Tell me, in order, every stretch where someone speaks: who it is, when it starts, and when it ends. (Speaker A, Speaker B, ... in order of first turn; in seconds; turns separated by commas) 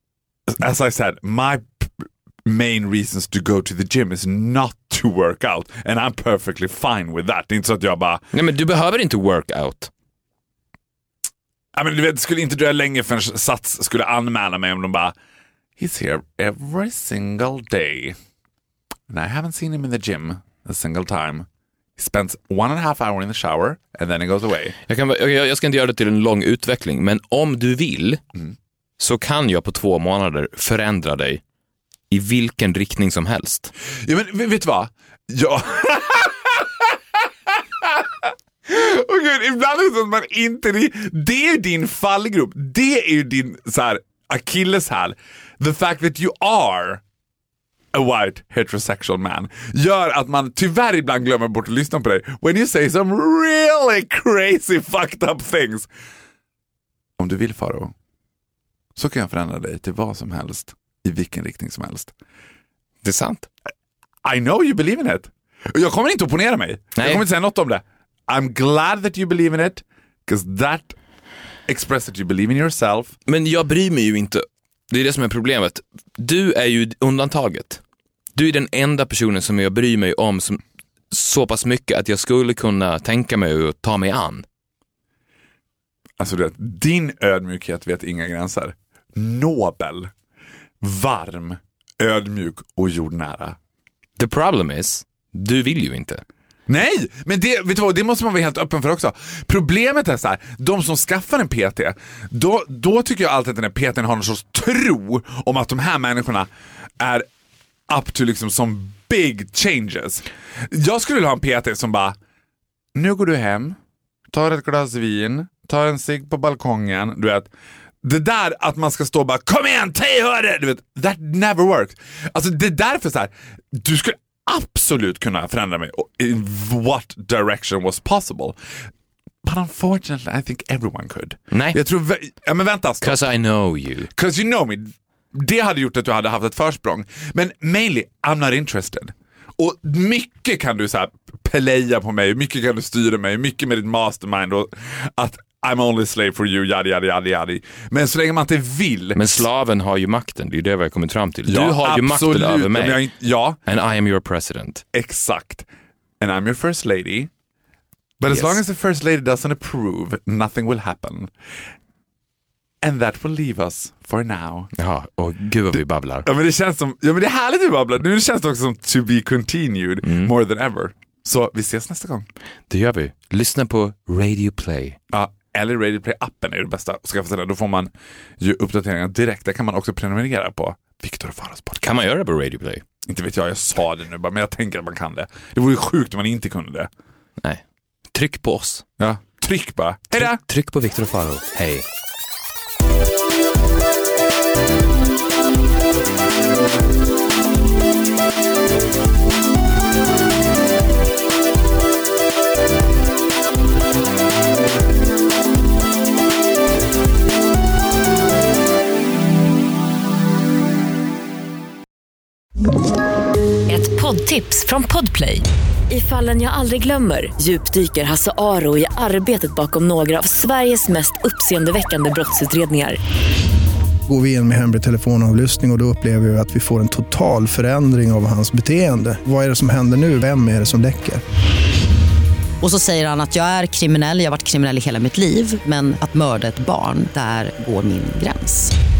Speaker A: 0.5-8.2, Speaker B: 8.3-9.9, Speaker A: 11.8-15.2, Speaker A: 15.8-18.2, Speaker A: 19.1-21.5, Speaker A: 22.0-24.8, Speaker B: 24.9-28.2, Speaker B: 29.0-31.4, Speaker B: 32.1-33.7, Speaker A: 34.0-47.0, Speaker A: 47.9-55.9, Speaker A: 57.2-57.9, Speaker A: 59.0-62.1, Speaker B: 63.0-63.5, Speaker A: 64.2-71.0, Speaker B: 67.0-67.2, Speaker A: 71.7-73.1, Speaker B: 73.3-77.8, Speaker B: 78.3-84.5, Speaker A: 86.2-90.1, Speaker A: 90.8-93.6, Speaker B: 94.2-96.2, Speaker A: 96.7-106.5, Speaker A: 107.0-107.3, Speaker A: 107.9-112.2, Speaker A: 113.0-113.8, Speaker A: 114.3-117.5, Speaker A: 118.0-128.6, Speaker A: 129.4-133.2, Speaker B: 131.5-131.8, Speaker B: 133.0-134.1, Speaker A: 134.1-149.5, Speaker B: 149.2-153.1, Speaker A: 151.5-153.6, Speaker B: 153.7-154.8, Speaker A: 154.9-155.7, Speaker A: 156.2-157.3, Speaker A: 158.2-161.3, Speaker A: 162.8-164.7, Speaker B: 164.8-166.3, Speaker A: 166.2-172.3, Speaker B: 170.0-170.3, Speaker B: 172.7-175.0, Speaker A: 175.1-181.8, Speaker B: 181.8-182.8, Speaker A: 183.1-186.9, Speaker B: 187.4-188.8, Speaker A: 189.0-190.4, Speaker B: 190.1-191.8, Speaker C: 213.7-223.0, Speaker D: 224.1-231.2, Speaker E: 232.6-238.7